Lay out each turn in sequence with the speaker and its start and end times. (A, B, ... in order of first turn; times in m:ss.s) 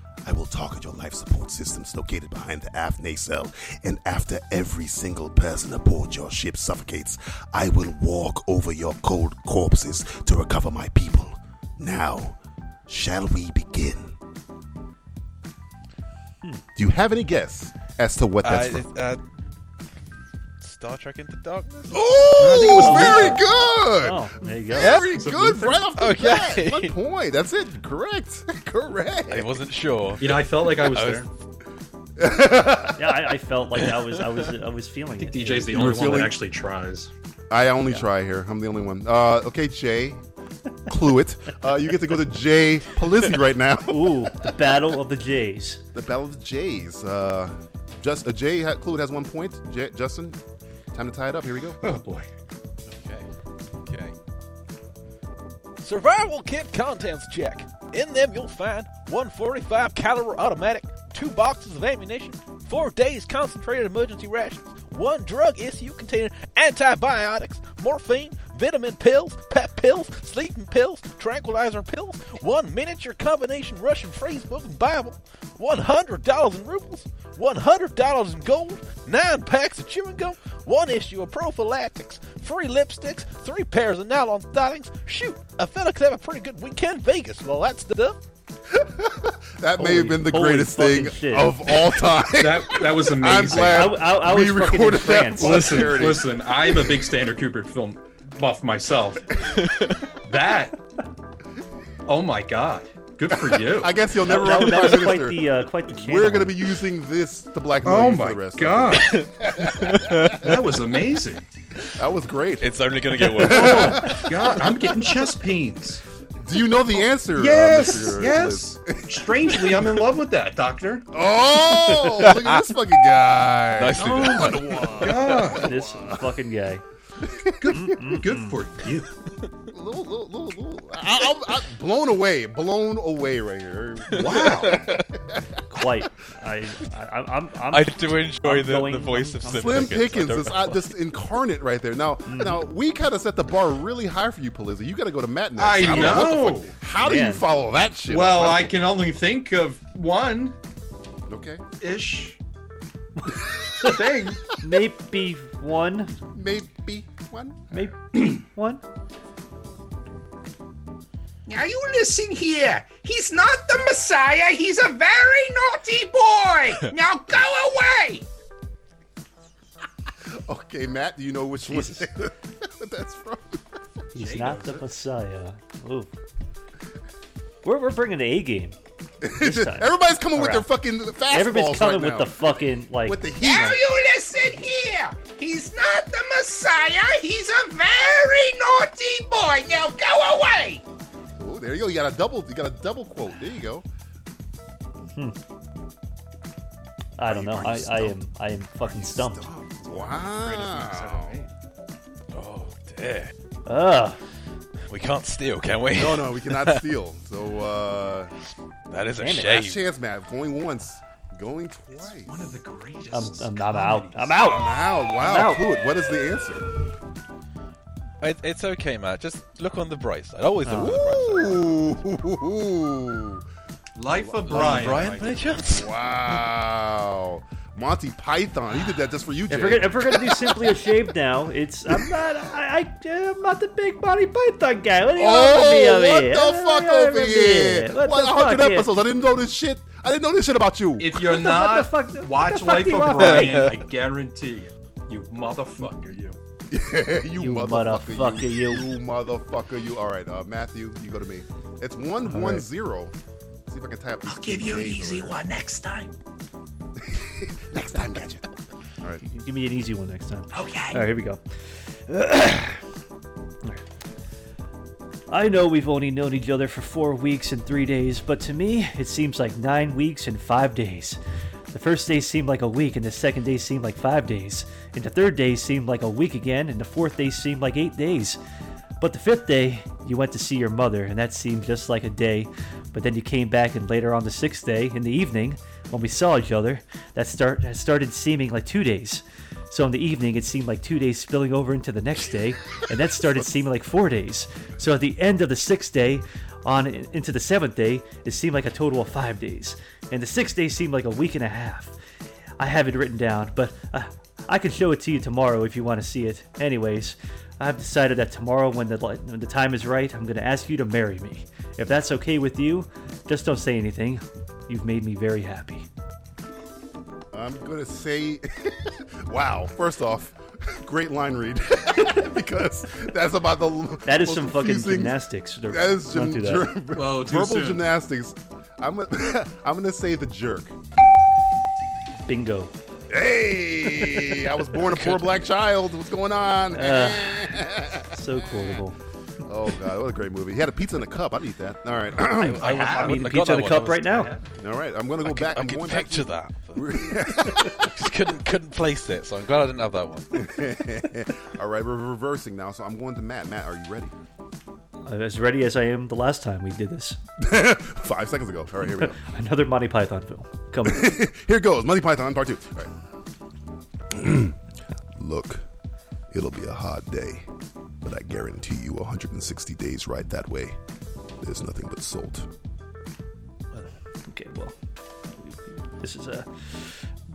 0:00.2-0:14.1 A
0:16.8-0:18.9 A
0:18.4-0:19.2 B
0:20.6-0:22.7 B
0:21.9-0:29.5 A
0:22.4-0:23.3 C
0:22.5-0:23.4 D
0:24.0-0:25.0 D
0:24.8-0:25.2 B
0:25.1-0:25.8 C
0:26.0-0:26.9 B
0:29.3-0:31.3 B
0:30.2-0:31.3 C
0:32.2-0:33.0 A
0:33.0-0:36.4 D
0:35.2-0:37.1 C
0:35.7-0:36.4 A
0:37.5-0:40.2 A
0:40.9-0:44.3 A
0:43.9-0:45.8 D
0:45.9-0:50.4 A
0:50.9-0:51.8 A
0:51.8-0:52.3 C
0:52.9-0:53.3 B
0:53.9-0:54.2 B
0:55.8-1:28.2 B
1:28.7-1:36.9 A
1:29.8-1:31.7 D
1:32.4-1:34.0 C
1:33.7-1:35.8 D
1:35.4-1:39.2 C
1:40.3-1:40.7 C
1:42.1-1:44.0 C
1:43.3-1:49.1 A
1:44.3-1:46.6 D
1:47.8-1:49.2 C
1:49.9-1:50.4 B
1:50.3-1:51.4 C
1:52.0-1:52.7 A
1:52.6-1:54.2 B
1:53.4-1:54.2 A
1:53.4-1:56.0 C
1:56.4-1:59.8 A
1:57.4-2:01.1 C
2:01.1-2:06.2 A
2:01.8-2:02.7 B
2:03.8-2:04.9 B
2:04.0-2:05.7 C
2:05.6-2:06.8 D
2:07.3-2:07.5 A
2:07.6-2:09.1 C
2:07.7-2:08.6 D
2:09.7-2:15.4 A
2:14.1-2:14.9 B
2:14.2-2:14.8 C
2:15.7-2:20.0 D
2:17.7-2:20.9 B
2:19.5-2:28.8 A
2:22.3-2:22.6 D
2:25.6-2:26.7 C
2:25.9-2:26.4 D
2:27.0-2:27.4 D
2:28.1-2:30.6 C
2:31.3-2:31.6 A
2:31.8-2:32.4 C
2:33.8-2:34.4 C
2:34.6-2:36.1 D
2:36.3-2:37.9 A
2:37.7-2:38.8 D
2:41.5-2:48.2 E
2:50.4-2:53.6 A
2:51.7-2:52.0 D
2:54.1-2:56.1 D
2:54.2-2:54.9 C
2:57.6-2:58.8 D
2:59.2-3:02.4 A
2:59.4-3:00.7 D
3:01.3-3:03.7 D
3:03.0-3:03.8 A
3:03.4-3:10.8 E
3:11.4-3:13.8 A
3:17.2-3:19.5 D
3:17.3-3:18.2 A
3:18.8-3:21.4 A
3:19.9-3:21.5 C
3:22.3-3:23.3 B
3:23.7-3:24.2 D
3:24.9-3:26.8 B
3:26.0-3:28.3 A
3:28.9-3:29.8 B
3:29.2-3:29.6 D
3:29.4-3:32.6 A
3:32.0-3:34.6 C
3:33.1-3:35.6 D
3:34.4-3:36.7 A
3:38.2-3:41.7 B
3:40.7-3:41.0 D
3:40.7-3:43.4 A
3:44.0-3:45.5 C
3:44.2-3:45.1 A
3:44.5-3:45.9 B
3:45.7-3:50.8 A
3:49.5-3:58.9 D
3:55.2-4:01.1 A
4:01.0-4:06.4 C
4:01.2-4:03.7 D
4:06.7-4:13.1 A
4:07.4-4:08.9 D
4:12.3-4:12.7 D
4:13.7-4:15.4 A
4:14.3-4:16.1 C
4:17.1-4:18.4 A
4:19.2-4:21.4 D
4:20.5-4:21.0 C
4:22.1-4:22.8 D
4:25.3-4:31.2 D
4:31.7-4:38.4 D
4:39.0-5:02.0 D
5:02.6-5:15.9 D
5:17.3-5:30.7 A
5:24.1-5:26.7 D
5:26.9-5:27.9 C
5:32.3-5:32.7 D
5:33.1-5:38.8 A
5:36.7-5:37.5 D
5:38.1-5:39.0 D
5:39.5-5:42.6 A
5:42.4-5:44.2 B
5:42.4-5:44.3 D
5:42.6-5:43.3 C
5:44.1-5:44.4 C
5:44.6-5:47.9 A
5:45.2-5:47.0 B
5:47.8-5:50.3 B
5:50.3-5:54.1 A
5:55.1-5:57.2 D
5:57.4-5:59.2 A
5:59.0-6:01.2 D
6:00.8-6:02.9 A
6:04.1-6:04.6 A
6:05.2-6:05.6 A
6:06.3-6:07.5 A
6:08.0-6:10.8 A
6:11.4-6:12.5 A
6:13.7-6:14.8 D
6:15.4-6:17.1 D